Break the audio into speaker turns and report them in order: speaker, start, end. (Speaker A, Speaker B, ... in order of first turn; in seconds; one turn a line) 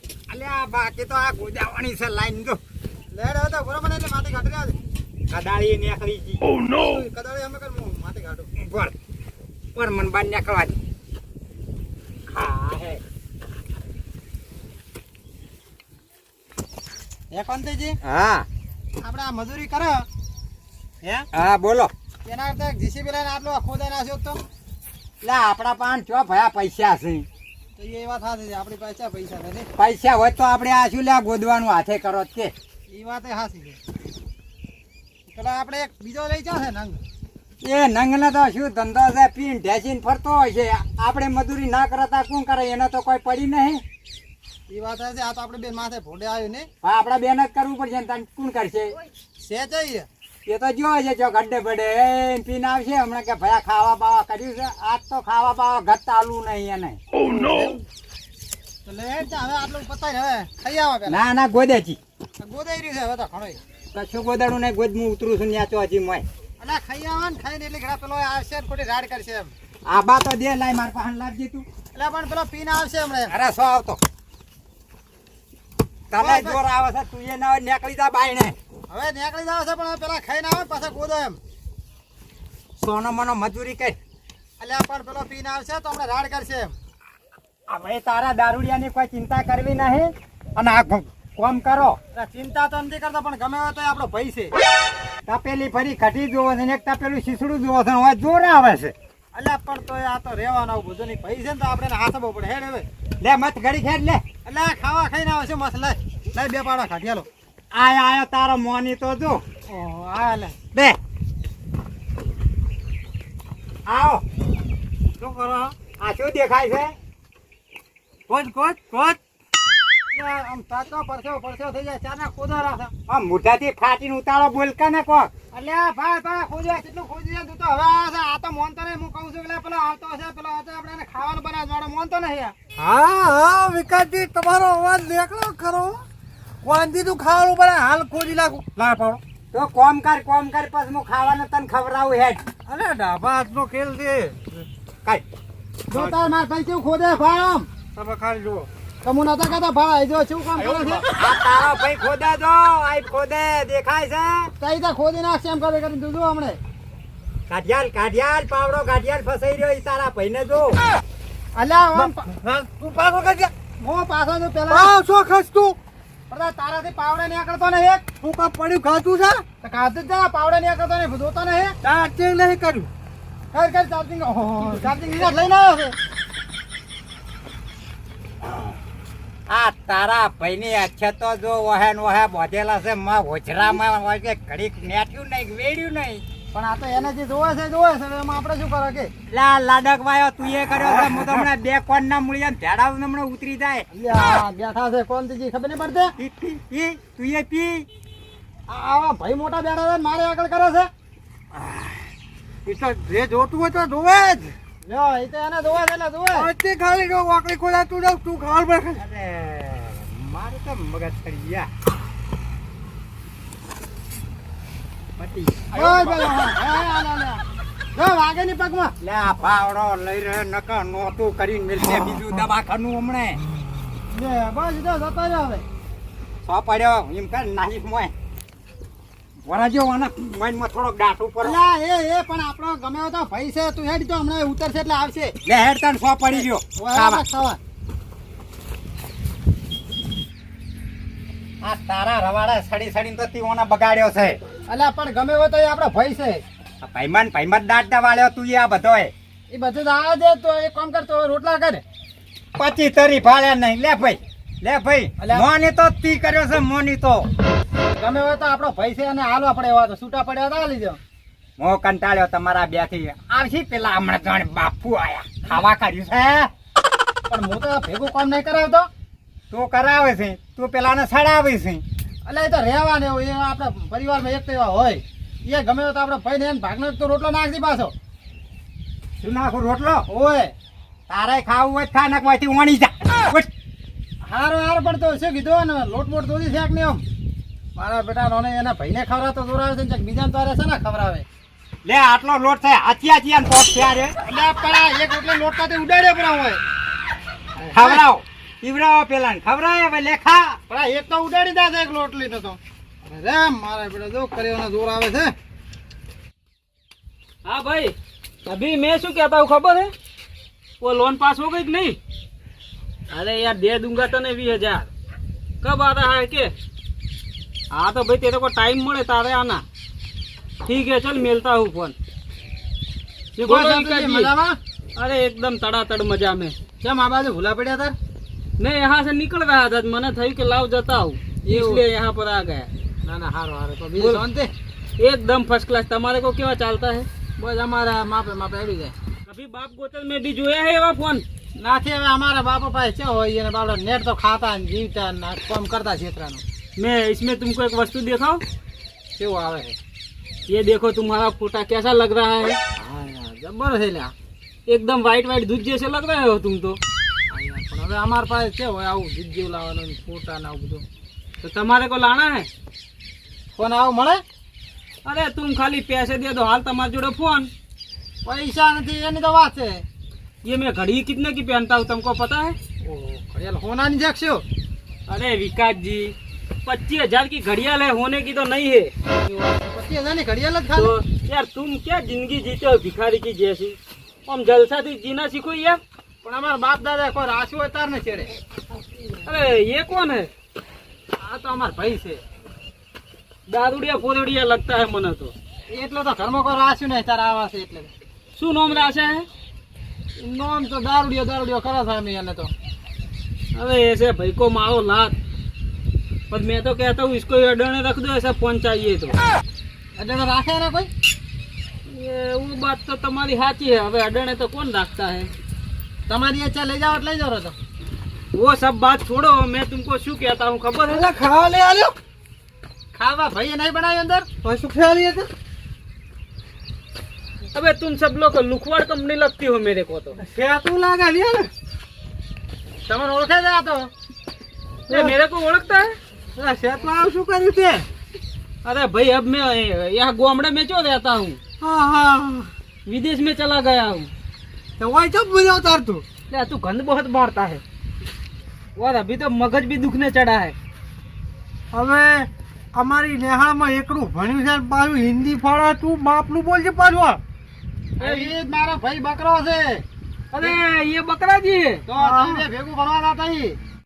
Speaker A: 0.3-2.6
Speaker B: 3.1-4.8
Speaker A: 5.3-6.4
Speaker B: 6.6-8.5
Speaker A: 8.6-8.9
Speaker A: 9.7-10.8
Speaker A: 12.3-13.0
Speaker B: 17.3-18.0
Speaker A: 18.0-18.5
Speaker B: 19.0-20.1
Speaker A: 21.3-21.9
Speaker B: 22.2-24.4
Speaker A: 25.2-27.2
Speaker B: 27.8-29.7
Speaker A: 29.7-32.5
Speaker B: 32.9-33.8
Speaker B: 35.3-37.0
Speaker A: 37.6-43.8
Speaker B: 44.7-46.7
Speaker A: 46.8-48.9
Speaker B: 49.4-50.1
Speaker A: 50.5-57.0
Speaker B: 57.2-57.8
Speaker B: 58.8-61.2
Speaker A: 61.1-62.0
Speaker B: 62.4-63.6
Speaker A: 63.9-66.2
Speaker B: 66.6-69.5
Speaker A: 69.8-71.6
Speaker B: 71.9-73.3
Speaker A: 73.3-74.0
Speaker A: 76.1-78.5
Speaker B: 76.2-76.6
Speaker B: 78.9-81.4
Speaker A: 82.8-84.0
Speaker B: 84.6-86.7
Speaker A: 87.7-92.0
Speaker B: 92.1-94.5
Speaker A: 95.2-98.9
Speaker B: 99.3-102.9
Speaker A: 103.2-104.2
Speaker B: 104.4-107.3
Speaker A: 107.7-109.4
Speaker B: 109.7-110.5
Speaker A: 110.7-111.0
Speaker A: 113.9-114.2
Speaker C: 115.2-115.7
Speaker A: 116.0-116.9
Speaker C: 118.3-119.2
Speaker B: 120.1-122.9
Speaker A: 123.1-125.3
Speaker B: 125.5-132.5
Speaker C: 132.8-136.0
Speaker C: 136.6-138.7
Speaker A: 138.8-142.5
Speaker C: 142.7-144.7
Speaker B: 145.9-147.7
Speaker C: 147.9-148.7
Speaker B: 149.0-151.1
Speaker A: 151.1-154.5
Speaker B: 154.6-156.6
Speaker A: 157.5-160.8
Speaker B: 161.5-162.3
Speaker C: 161.9-163.5
Speaker B: 163.8-164.9
Speaker C: 164.7-165.8
Speaker B: 166.3-168.0
Speaker C: 168.2-169.4
Speaker B: 169.6-171.7
Speaker C: 171.8-172.9
Speaker B: 173.5-175.9
Speaker A: 179.5-186.2
Speaker B: 186.5-189.1
Speaker A: 189.3-193.9
Speaker B: 193.9-196.1
Speaker A: 196.2-197.9
Speaker B: 198.7-200.9
Speaker C: 202.6-204.5
Speaker B: 204.8-206.5
Speaker C: 206.3-209.0
Speaker A: 209.0-211.7
Speaker A: 215.2-216.1
Speaker B: 215.7-218.9
Speaker A: 219.0-223.4
Speaker B: 224.1-225.6
Speaker A: 226.4-228.1
Speaker A: 229.4-231.6
Speaker B: 231.4-235.3
Speaker A: 235.4-237.2
Speaker B: 236.8-237.6
Speaker A: 241.6-244.4
Speaker B: 244.7-246.4
Speaker A: 246.8-249.1
Speaker B: 249.5-251.8
Speaker A: 252.6-257.3
Speaker B: 255.2-255.5
Speaker B: 257.9-261.0
Speaker A: 261.6-266.5
Speaker B: 267.3-268.9
Speaker A: 269.5-271.8
Speaker B: 272.2-277.9
Speaker A: 279.2-280.0
Speaker B: 280.1-280.5
Speaker A: 281.1-283.5
Speaker B: 284.2-287.0
Speaker B: 287.8-291.2
Speaker A: 291.8-294.1
Speaker B: 294.2-296.6
Speaker B: 297.6-298.0
Speaker A: 297.7-300.6
Speaker B: 300.7-305.3
Speaker D: 307.4-309.9
Speaker D: 310.8-312.0
Speaker D: 313.1-314.9
Speaker D: 315.6-316.5
Speaker D: 317.7-319.6
Speaker D: 320.6-321.9
Speaker D: 323.4-324.3
Speaker B: 323.4-324.6
Speaker D: 324.9-326.6
Speaker B: 326.8-327.9
Speaker D: 328.6-332.7
Speaker B: 331.4-331.8
Speaker B: 333.0-334.5
Speaker D: 335.0-337.1
Speaker B: 337.4-338.9
Speaker D: 339.2-341.2
Speaker B: 341.6-346.4
Speaker D: 346.8-348.4
Speaker B: 349.1-349.8
Speaker D: 350.5-352.6
Speaker B: 352.8-354.1
Speaker D: 354.7-356.8
Speaker B: 357.3-360.8
Speaker D: 361.4-362.5
Speaker B: 363.5-364.2
Speaker D: 365.0-367.5
Speaker B: 368.2-369.8
Speaker D: 370.4-372.6
Speaker B: 372.8-374.4
Speaker D: 375.1-376.1
Speaker D: 376.6-378.9
Speaker B: 379.1-380.9
Speaker D: 380.8-385.8
Speaker B: 386.2-388.3
Speaker D: 389.2-390.3
Speaker B: 391.2-392.2
Speaker D: 393.5-395.3
Speaker B: 395.7-397.9
Speaker D: 398.4-399.3
Speaker B: 400.2-402.5
Speaker D: 403.5-405.1
Speaker D: 406.3-409.2
Speaker B: 410.0-410.9
Speaker D: 411.9-415.3
Speaker B: 416.1-417.5
Speaker D: 418.3-421.1
Speaker C: 420.9-421.9
Speaker B: 422.9-424.3
Speaker C: 424.4-425.3
Speaker D: 427.5-430.2
Speaker C: 430.2-431.5
Speaker B: 432.9-433.9
Speaker C: 434.9-435.1
Speaker D: 434.9-436.0
Speaker C: 436.4-437.9
Speaker D: 438.6-441.4
Speaker C: 441.6-442.5
Speaker D: 442.9-444.1
Speaker C: 444.8-446.0
Speaker D: 446.3-447.6
Speaker D: 448.8-450.5
Speaker C: 451.7-457.2
Speaker B: 458.0-459.8
Speaker D: 458.0-458.3
Speaker D: 460.3-461.9
Speaker B: 461.9-463.6
Speaker C: 461.9-462.4